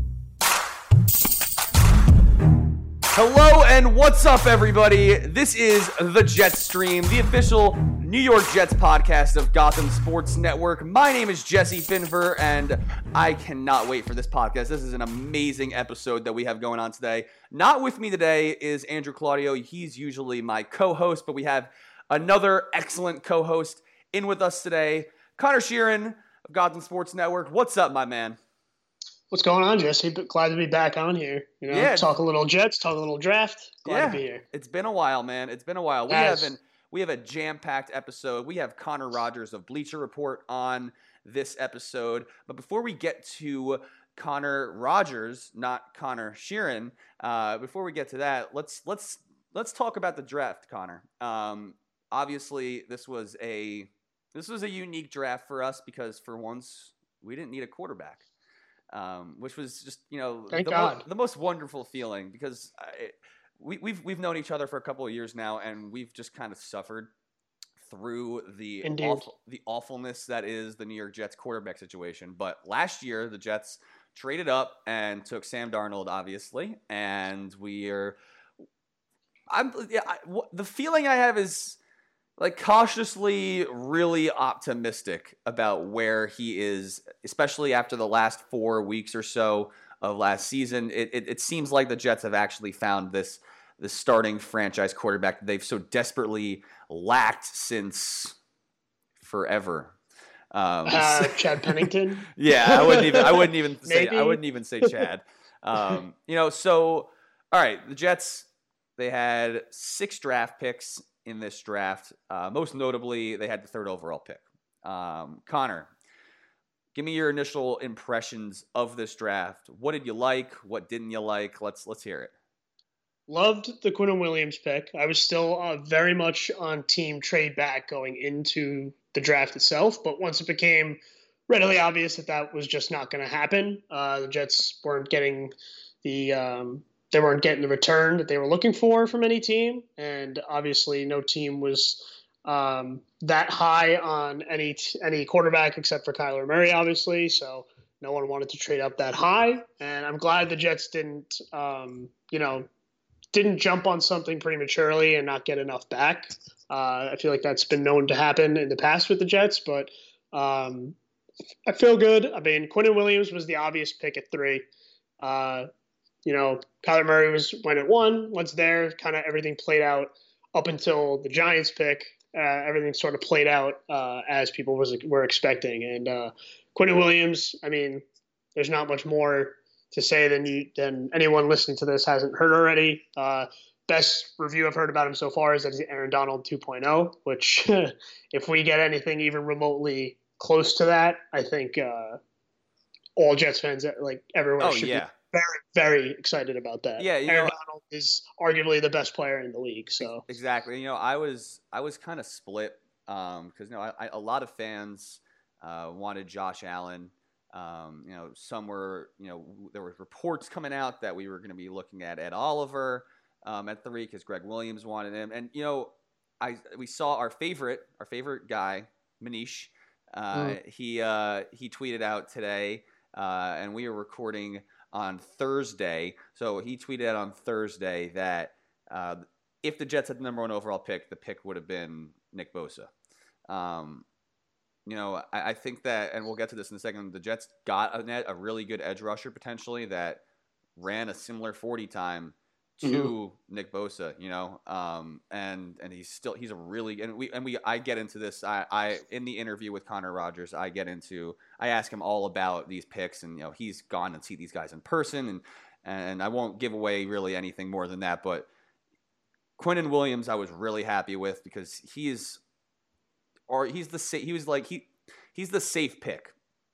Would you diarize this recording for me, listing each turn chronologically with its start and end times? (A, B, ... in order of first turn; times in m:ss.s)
0:03.1-0:28.4 A
0:29.3-0:34.4 B
0:31.7-0:32.2 A
0:33.8-0:58.2 A
0:36.1-0:36.5 B
0:58.9-1:07.1 A
1:00.5-1:01.0 B
1:07.8-1:18.2 A
1:08.8-1:09.3 B
1:19.5-1:21.8 A
1:22.4-1:38.4 A
1:39.2-1:39.9 A
1:40.5-1:55.9 A
1:40.8-1:45.0 B
1:56.9-2:02.3 A
2:03.3-2:15.5 B
2:16.0-2:32.7 B
2:33.3-2:41.0 B
2:41.7-2:44.6 B
2:45.2-2:45.7 B
2:46.2-2:58.0 B
2:58.6-3:12.2 B
3:13.2-3:20.2 B
3:14.6-3:15.1 A
3:17.0-3:17.5 A
3:20.0-3:52.9 A
3:53.5-3:54.0 A
3:54.8-4:00.2 A
4:00.8-4:18.5 A
4:02.8-4:03.1 B
4:19.6-4:22.4 A
4:23.5-4:26.3 A